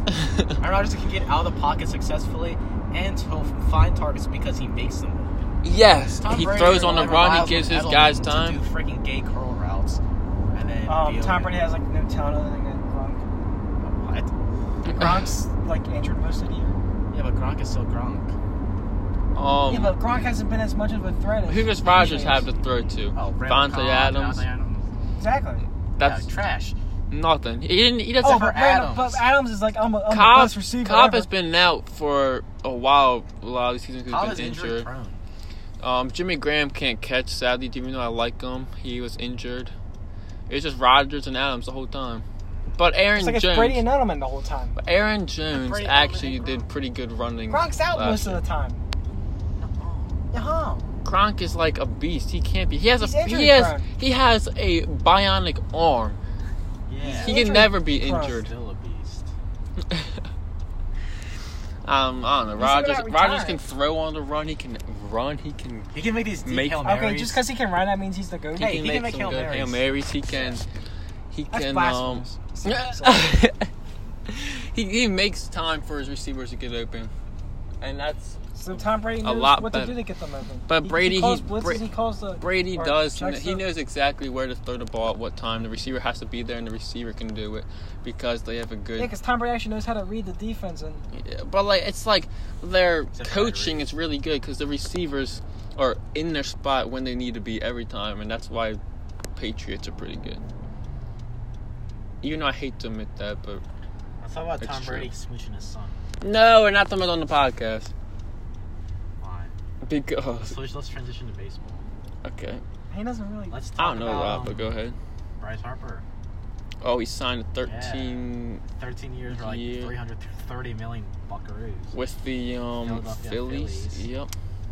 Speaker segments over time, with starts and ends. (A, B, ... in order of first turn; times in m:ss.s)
0:00.2-0:00.5 A
0:00.6-0:05.4 B
0:05.6-0:08.6 A
0:06.2-0:10.0 B
0:10.5-0:11.7 B
0:10.9-0:13.2 C
0:13.8-0:14.3 B
0:14.8-0:16.8 C
0:14.9-0:15.2 A
0:17.1-0:18.3 B
0:19.4-0:20.0 A
0:19.7-0:22.5 C
0:21.4-0:24.4 A
0:23.1-0:25.1 B
0:25.2-0:25.7 C
0:26.0-0:26.2 A
0:26.0-0:26.8 B
0:27.1-0:28.6 A
0:28.2-0:29.2 B
0:28.2-0:31.3 C
0:30.1-0:34.9 A
0:34.1-0:35.2 B
0:35.8-0:39.7 A
0:40.5-0:42.2 A
0:42.8-0:43.8 A
0:43.2-0:44.8 C
0:44.8-0:48.4 A
0:45.5-0:46.7 B
0:47.5-0:48.8 C
0:49.6-0:50.3 B
0:50.3-0:50.9 C
0:51.0-0:56.2 A
0:53.0-0:53.9 C
0:56.9-0:57.4 B
0:57.0-0:58.4 C
0:57.2-0:58.5 A
0:58.2-0:59.3 B
1:01.8-1:05.9 A
1:02.6-1:03.6 C
1:05.9-1:07.4 B
1:06.4-1:06.8 A
1:06.8-1:09.8 C
1:08.6-1:10.6 A
1:08.6-1:09.8 B
1:10.3-1:10.6 B
1:11.3-1:13.7 A
1:11.5-1:13.4 C
1:14.3-1:17.1 A
1:17.8-1:20.0 A
1:18.5-1:23.7 C
1:20.7-1:21.9 A
1:22.4-1:29.1 A
1:29.0-1:31.1 C
1:31.1-1:38.8 A
1:33.1-1:33.9 B
1:39.4-1:40.4 A
1:42.2-1:43.6 A
1:44.2-1:46.0 B
1:44.6-1:45.1 A
1:46.2-1:47.9 A
1:49.2-1:49.5 B
1:49.8-1:50.6 A
1:50.4-1:51.8 B
1:52.2-1:52.6 A
1:52.9-1:53.6 C
1:53.5-1:54.7 B
1:53.8-1:55.0 A
1:55.4-1:56.0 B
1:56.8-1:58.6 A
1:57.6-2:02.0 B
1:59.3-1:59.9 A
2:01.9-2:04.3 A
2:02.8-2:04.1 B